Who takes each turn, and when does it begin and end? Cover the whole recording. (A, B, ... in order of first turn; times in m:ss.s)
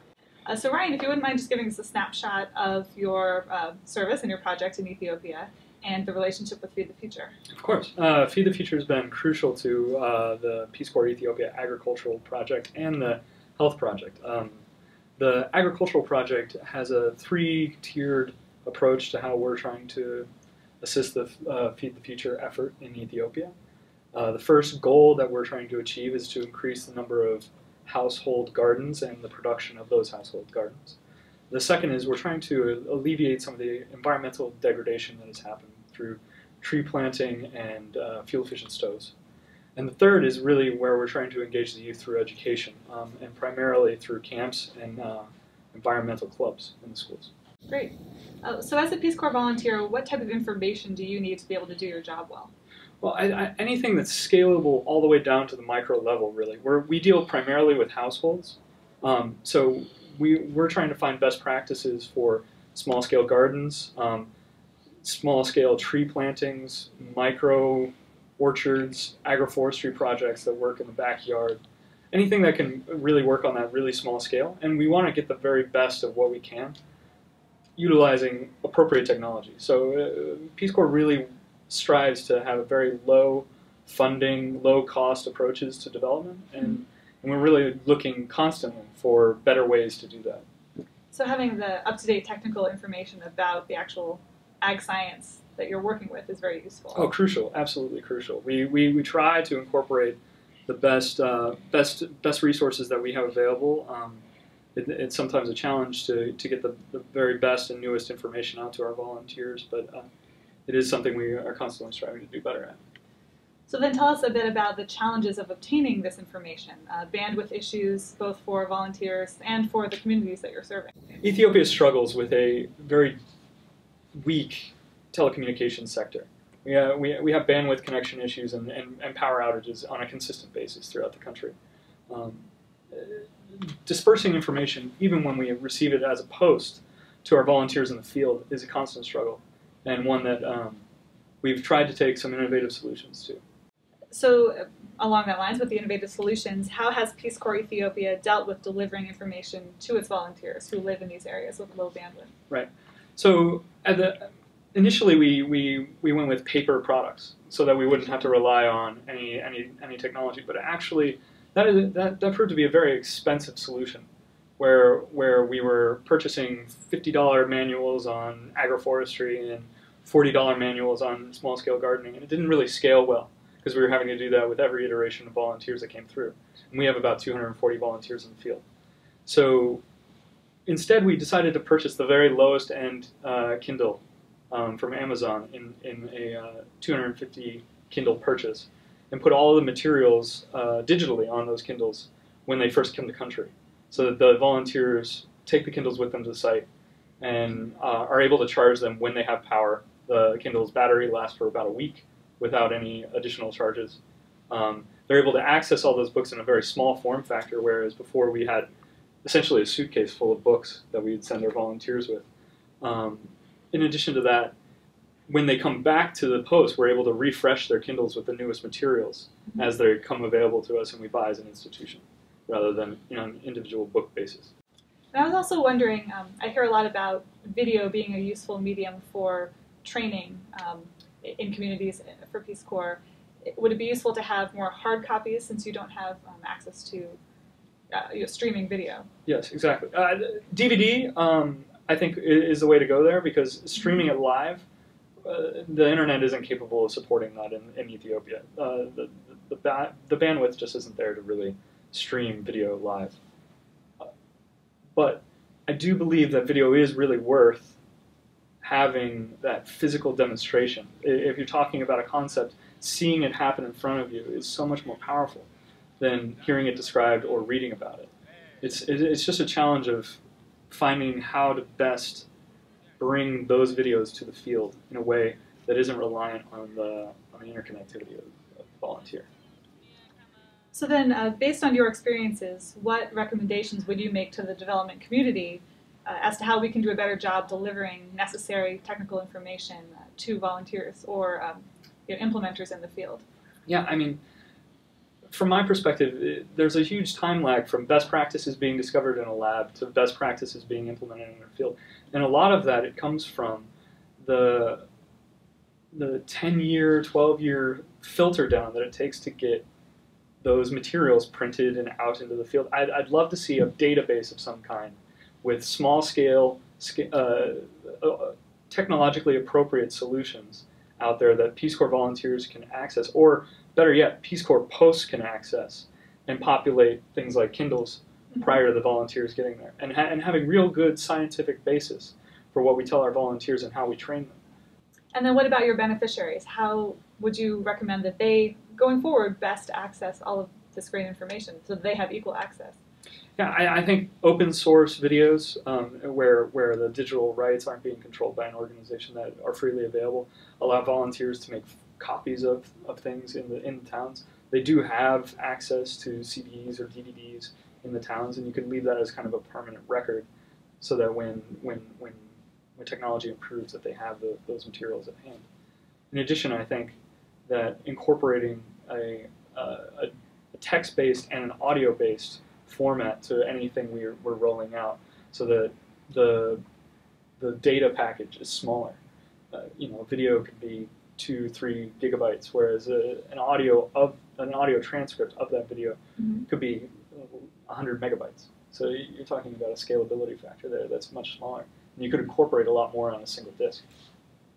0:00.5-0:07.3 A
0:07.5-0:14.6 B
0:15.2-0:20.3 B
0:20.8-0:23.5 B
0:24.1-0:31.0 B
0:31.5-0:39.1 B
0:39.8-0:47.3 B
0:47.7-0:52.5 A
0:53.0-1:04.3 B
1:05.0-1:11.6 B
1:12.1-1:16.8 B
1:17.8-1:30.4 B
1:31.1-1:37.1 A
1:36.9-1:44.2 B
1:44.7-1:50.0 B
1:50.6-1:52.8 B
1:53.7-2:00.9 A
2:01.2-2:03.2 B
2:04.2-2:11.5 B
2:12.1-2:20.8 B
2:21.4-2:23.4 B
2:24.1-2:32.3 A
2:32.5-2:44.1 B
2:44.6-2:58.6 B
2:59.2-2:59.8 B
3:00.6-3:16.6 B
3:17.2-3:28.7 B
3:29.2-3:32.2 B
3:32.8-3:34.5 B
3:35.3-3:44.5 B
3:45.1-3:57.2 A
3:57.9-3:59.1 A
3:59.2-4:04.6 B
4:05.2-4:13.2 B
4:15.0-4:17.8 B
4:18.6-4:25.5 B
4:26.0-4:28.1 B
4:28.6-4:32.3 B
4:33.0-4:39.3 B
4:40.7-4:53.2 A
4:53.7-4:54.2 B
4:55.3-5:03.7 B
5:04.2-5:04.9 B
5:05.9-5:09.6 B
5:10.4-5:34.4 B
5:28.3-5:28.6 A
5:35.1-5:42.8 A
5:43.4-6:00.3 B
6:00.8-6:05.4 B
6:06.1-6:16.6 B
6:17.4-6:19.0 B
6:19.5-6:33.8 B
6:26.2-6:26.4 A